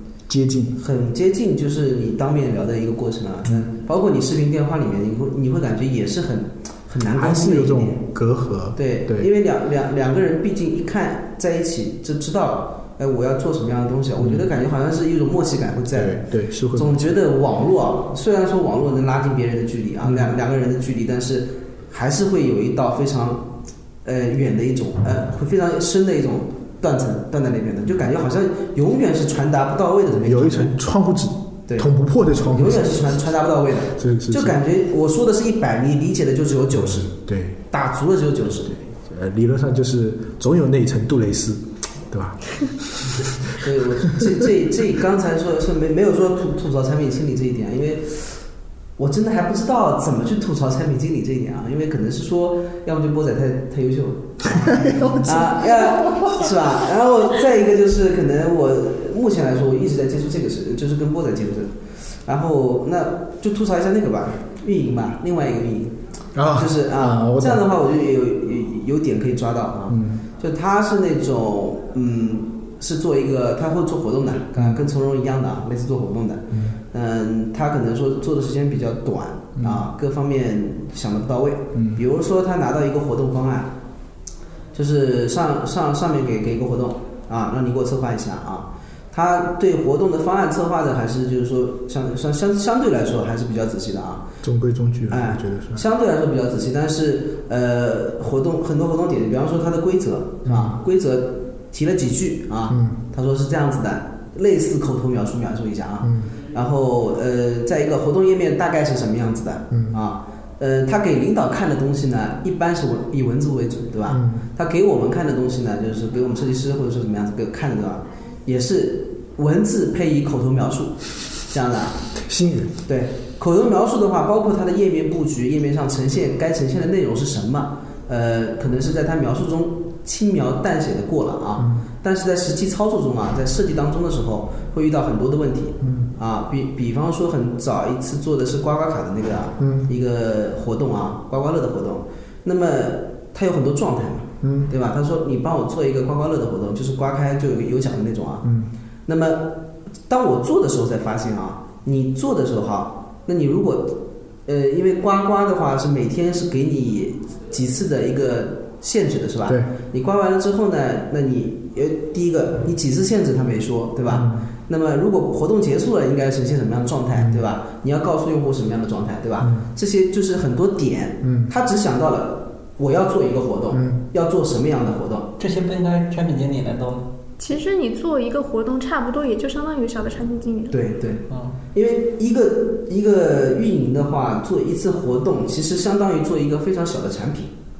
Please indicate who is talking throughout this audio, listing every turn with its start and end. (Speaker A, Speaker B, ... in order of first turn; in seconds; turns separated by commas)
Speaker A: 0.3-0.8, Speaker B: 0.8-8.0, Speaker A: 3.5-3.7, Speaker A: 7.1-9.3, Speaker B: 8.8-16.2, Speaker A: 14.2-14.5, Speaker A: 15.9-17.2, Speaker B: 16.7-30.7, Speaker A: 30.1-33.1, Speaker B: 32.5-37.1, Speaker A: 34.0-34.6, Speaker A: 36.7-37.6, Speaker B: 37.7-38.7, Speaker A: 38.6-44.3, Speaker B: 43.5-48.5, Speaker B: 49.0-66.0, Speaker A: 54.5-56.5, Speaker A: 66.3-67.7, Speaker B: 66.5-83.7, Speaker A: 69.9-70.2, Speaker A: 74.6-74.8, Speaker A: 76.5-76.8, Speaker A: 79.6-79.9, Speaker A: 81.7-82.0, Speaker B: 84.7-94.3, Speaker A: 94.4-95.9, Speaker B: 95.1-122.0, Speaker A: 100.5-100.8, Speaker A: 102.7-103.0, Speaker A: 106.0-106.3, Speaker A: 109.7-110.0, Speaker A: 114.1-114.5, Speaker A: 122.2-122.7, Speaker B: 122.9-148.5, Speaker A: 131.6-131.9, Speaker A: 135.8-136.1, Speaker A: 139.6-139.9, Speaker A: 144.4-144.7, Speaker A: 148.4-148.7, Speaker B: 149.1-175.3, Speaker A: 159.5-159.7, Speaker A: 164.1-164.5, Speaker A: 167.2-167.4, Speaker A: 169.4-169.7, Speaker A: 171.2-171.5, Speaker A: 173.7-174.0, Speaker C: 175.4-177.1, Speaker D: 177.4-180.8, Speaker B: 180.7-187.5, Speaker C: 181.3-181.6